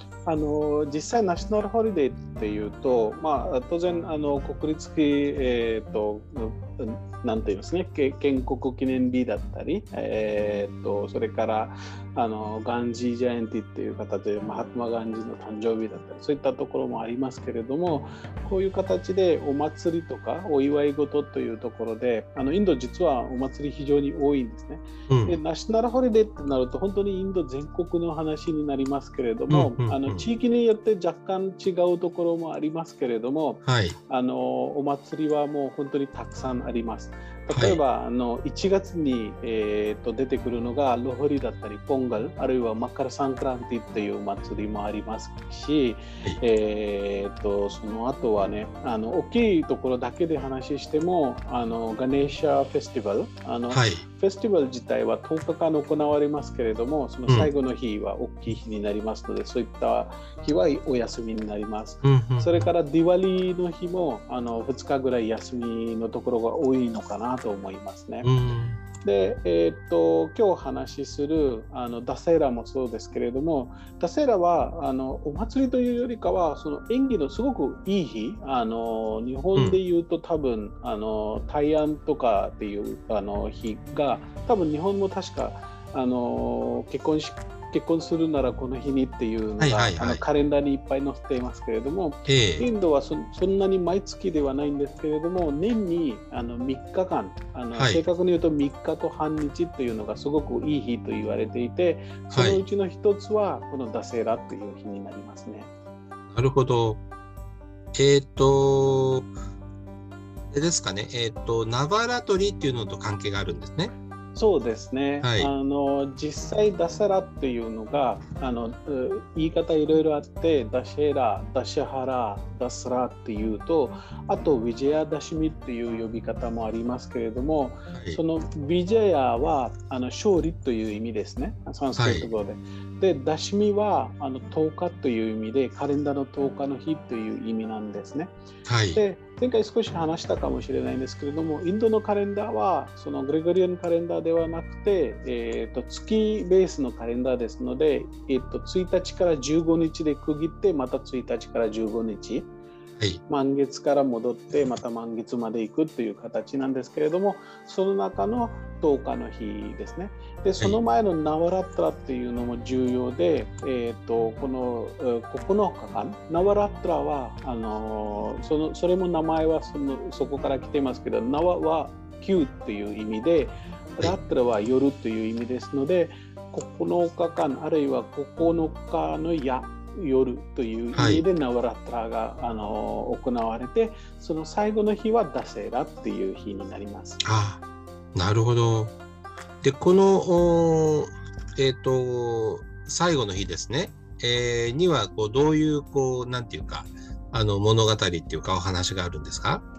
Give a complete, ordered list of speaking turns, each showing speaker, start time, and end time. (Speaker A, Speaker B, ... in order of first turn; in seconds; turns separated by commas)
Speaker A: 0.3-68.3, Speaker B: 25.1-25.4, Speaker B: 29.5-30.3, Speaker B: 33.6-34.0, Speaker B: 37.5-37.8, Speaker B: 53.7-54.0, Speaker B: 62.0-62.7, Speaker B: 68.2-68.8, Speaker A: 69.0-105.7, Speaker B: 89.6-90.2, Speaker B: 92.3-92.7, Speaker B: 97.8-98.0, Speaker B: 102.3-102.6, Speaker B: 106.3-107.0, Speaker B: 107.9-109.3, Speaker B: 110.5-113.9, Speaker A: 114.3-138.3, Speaker B: 115.2-115.5, Speaker B: 127.9-128.2, Speaker B: 132.0-132.3, Speaker B: 138.7-139.0, Speaker A: 138.9-152.5, Speaker A: 153.3-187.2, Speaker B: 180.9-181.2, Speaker B: 187.2-187.6, Speaker B: 188.1-188.9, Speaker B: 189.6-199.6